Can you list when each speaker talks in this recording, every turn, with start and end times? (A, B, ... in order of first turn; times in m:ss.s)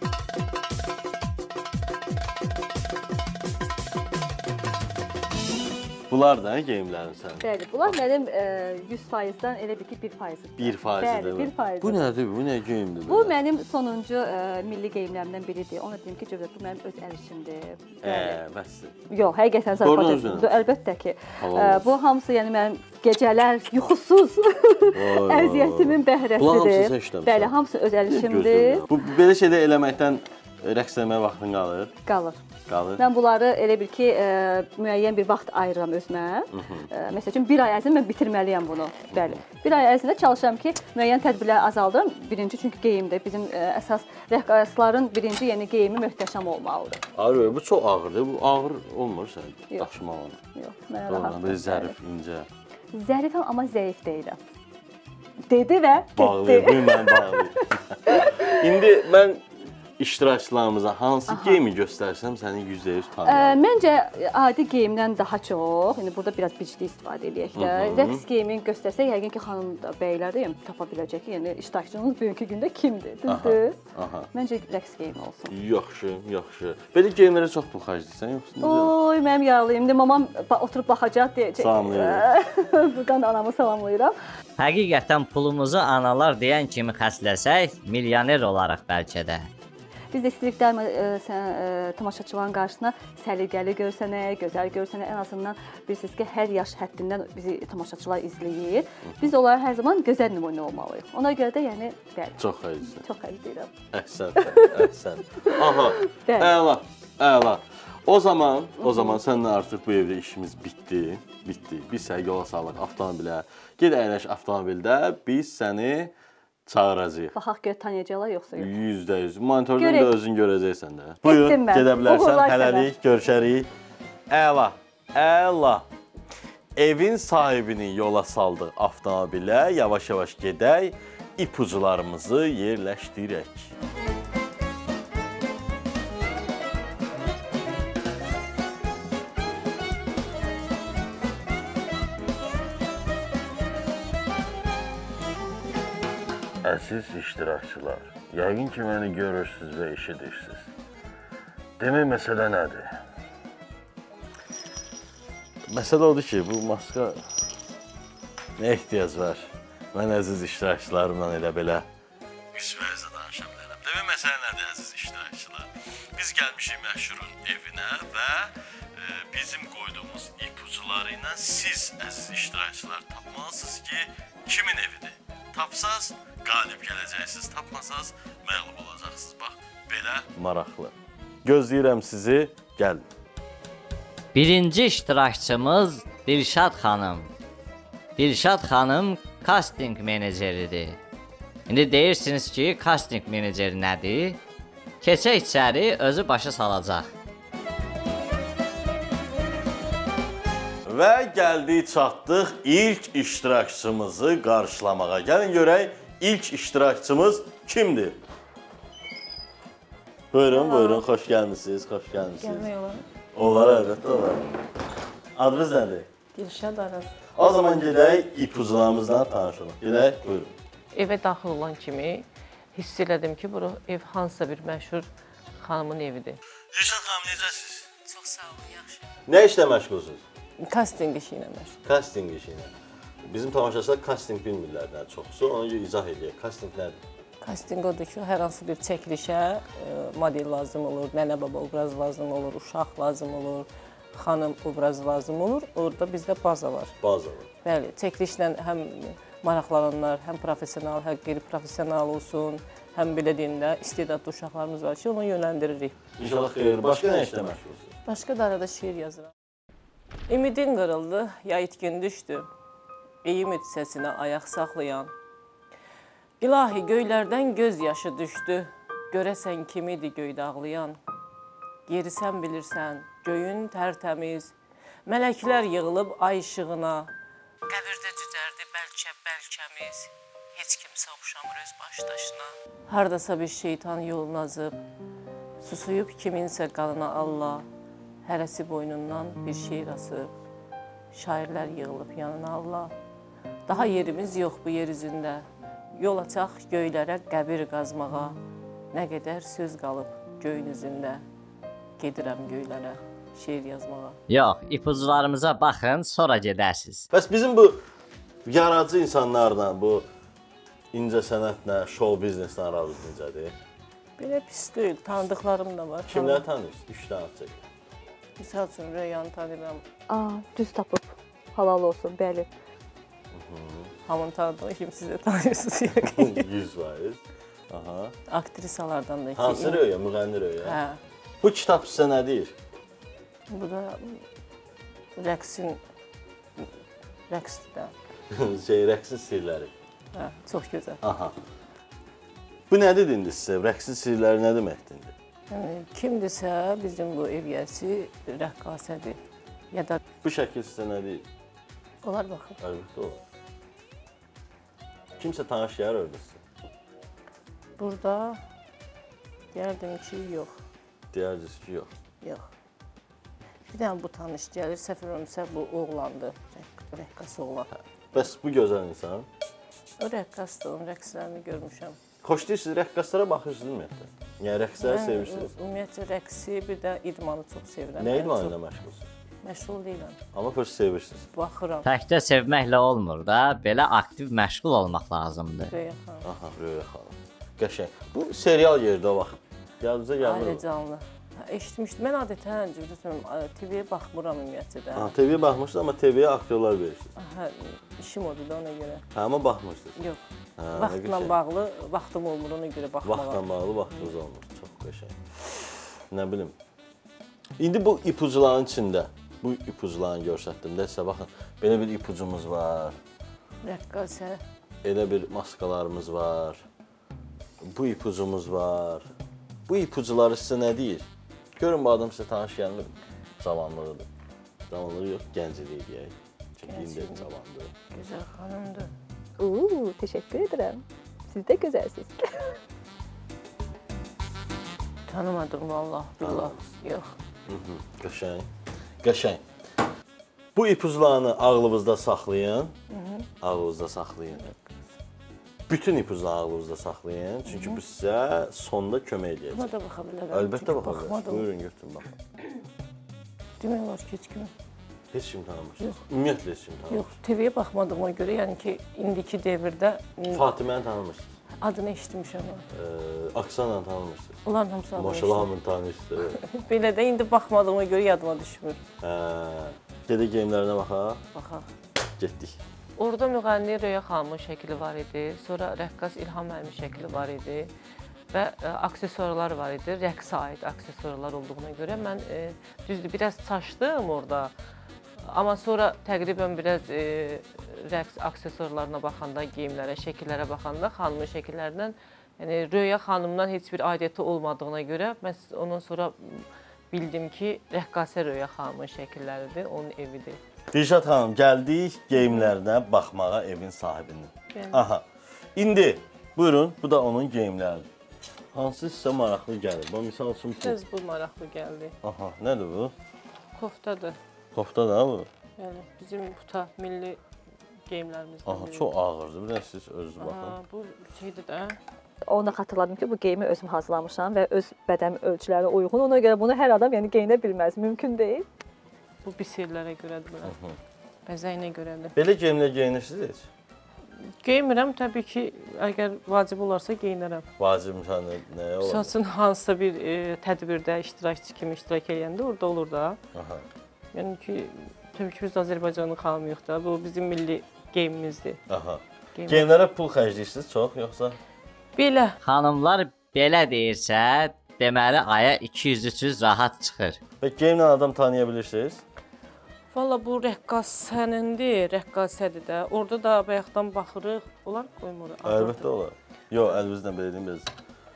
0:06.1-0:08.0 A
0:07.4-0:12.0 B
0:10.6-0:13.3 A
0:13.1-0:18.4 B
0:18.0-0:18.9 A
0:19.1-0:28.8 B
0:19.8-0:20.6 A
0:21.4-0:21.9 A
0:24.9-0:27.5 A
0:28.0-0:31.9 A
0:32.0-0:32.4 B
0:32.7-0:33.0 A
0:33.0-0:47.0 B
0:36.5-0:36.9 A
0:39.1-0:39.4 A
0:47.1-0:50.4 A
0:50.5-0:51.9 B
0:51.1-0:52.5 A
0:52.9-0:54.4 B
0:55.5-0:58.6 B
0:56.2-0:59.4 A
1:00.0-1:03.6 A
1:01.3-1:01.6 B
1:03.2-1:13.8 B
1:07.5-1:08.2 A
1:13.3-1:14.3 A
1:14.3-1:15.5 B
1:15.5-1:18.9 A
1:18.6-1:24.1 B
1:21.6-1:22.2 A
1:24.6-1:29.5 C
1:30.1-1:43.7 B
1:39.0-1:39.3 A
1:42.4-1:43.0 A
1:43.9-1:56.1 A
1:44.4-1:44.8 B
1:45.4-1:46.5 B
1:48.8-1:49.2 B
1:56.7-1:57.3 A
1:57.3-1:58.7 B
1:58.6-2:03.7 A
1:59.8-2:00.1 B
2:01.2-2:02.9 B
2:04.3-2:05.8 A
2:06.8-2:13.7 A
2:26.6-2:30.7 A
2:31.8-2:33.0 A
2:35.7-2:37.2 A
2:38.6-2:41.8 A
2:42.5-3:03.0 A
3:04.3-3:07.3 C
3:08.2-3:11.0 C
3:11.7-3:14.4 C
3:15.0-3:17.1 C
3:20.8-3:28.2 A
3:30.3-3:32.7 A
3:32.4-3:33.0 D
3:33.3-3:34.4 A
3:35.3-3:36.1 A
3:36.3-3:37.2 D
3:37.3-3:40.5 A
3:40.9-3:45.1 D
3:45.6-3:46.4 D
3:46.7-3:47.9 A
3:48.0-3:49.1 D
3:49.2-3:50.2 A
3:50.6-3:51.8 D
3:51.8-3:52.7 A
3:53.2-3:57.0 A
3:57.4-4:06.9 D
4:07.0-4:07.5 A
4:07.6-4:16.0 D
4:16.2-4:17.9 A
4:18.0-4:19.3 D
4:20.3-4:22.5 D
4:23.2-4:25.1 D
4:26.4-4:31.0 D
4:31.9-4:34.5 D
4:35.0-4:37.1 D
4:37.7-4:44.8 D
4:45.6-4:47.6 D
4:48.2-4:50.3 D
4:51.1-4:52.9 D
4:53.7-4:58.4 D
4:58.9-5:01.2 D
5:02.0-5:04.2 D
5:04.3-5:07.0 C
5:07.1-5:07.8 A
5:08.4-5:10.1 A
5:10.9-5:13.6 A
5:14.2-5:16.4 D
5:16.0-5:17.6 A
5:18.4-5:19.8 D
5:20.1-5:22.5 B
5:23.3-5:23.9 A
5:24.1-5:26.4 D
5:26.0-5:28.1 A
5:28.3-5:29.8 D
5:29.4-5:30.8 A
5:30.6-5:31.0 D
5:31.4-5:32.5 A
5:33.5-5:34.2 D
5:35.2-5:35.8 D
5:37.3-5:37.9 D
5:38.3-5:39.7 A
5:40.1-5:41.0 D
5:41.0-5:41.4 A
5:42.7-5:45.1 A
5:45.5-5:49.2 D
5:49.7-5:50.0 D
5:50.2-5:51.2 A
5:52.0-5:52.6 D
5:52.6-5:53.2 A
5:55.2-5:56.4 A
5:57.8-5:58.4 D
5:59.5-6:00.6 D
6:01.1-6:01.9 A
6:02.2-6:02.5 D
6:03.7-6:07.7 D
6:08.1-6:09.3 A
6:10.0-6:12.0 D
6:12.2-6:15.5 A
6:14.8-6:18.5 D
6:18.0-6:19.1 A
6:19.4-6:20.2 D
6:20.3-6:21.3 A
6:21.3-6:21.9 D
6:21.8-6:25.7 C
6:25.7-6:26.2 D
6:26.2-6:30.6 A
6:30.2-6:35.1 D
6:34.9-6:37.1 A
6:37.2-6:39.0 D
6:39.1-6:40.0 A
6:40.6-6:41.3 A
6:40.7-6:43.4 D
6:43.0-6:46.5 A
6:47.6-6:53.0 A
6:53.6-6:54.4 D
6:54.8-6:56.6 A
6:57.6-6:59.1 A
6:59.7-7:04.1 A
7:04.7-7:07.7 A
7:06.7-7:07.3 D
7:07.9-7:08.9 D
7:09.4-7:12.6 B
7:15.1-7:17.1 D
7:16.2-7:16.6 A
7:17.5-7:18.5 A
7:19.0-7:19.4 A
7:20.5-7:22.7 A
7:22.9-7:23.3 D
7:23.4-7:24.5 A
7:25.7-7:29.7 A
7:27.5-7:27.8 D
7:29.5-7:31.5 D
7:30.3-7:32.1 A
7:33.6-7:34.5 D
7:35.1-7:37.1 A
7:36.9-7:40.5 D
7:40.3-7:41.3 A
7:41.6-7:42.6 D
7:42.7-7:44.4 A
7:44.4-7:45.5 D
7:44.9-7:46.4 A
7:46.3-7:48.8 D
7:49.0-7:51.2 A
7:51.3-7:51.6 D
7:52.2-7:52.6 A
7:53.0-7:57.7 D
7:58.3-8:04.5 D
8:05.2-8:20.4 D
8:20.7-8:25.0 A
8:24.5-8:24.8 D
8:25.6-8:27.9 A
8:28.5-8:30.8 A
8:30.6-8:31.9 D
8:32.0-8:32.9 A
8:33.6-8:34.2 D
8:34.5-8:35.3 A
8:35.6-8:37.2 D
8:37.9-8:38.9 D
8:38.4-8:40.6 A
8:40.2-8:41.8 D
8:42.3-8:48.4 B
8:49.2-8:50.5 D
8:50.4-8:50.8 A
8:51.2-8:52.2 D
8:52.1-8:53.5 A
8:54.4-8:57.4 D
8:57.6-8:59.1 A
8:58.8-9:03.2 D
9:03.3-9:03.6 A
9:04.1-9:08.6 D
9:08.7-9:11.4 A
9:09.4-9:09.7 D
9:12.0-9:12.4 D
9:12.4-9:17.2 C
9:17.4-9:19.0 A
9:19.9-9:25.9 D
9:25.4-9:27.7 A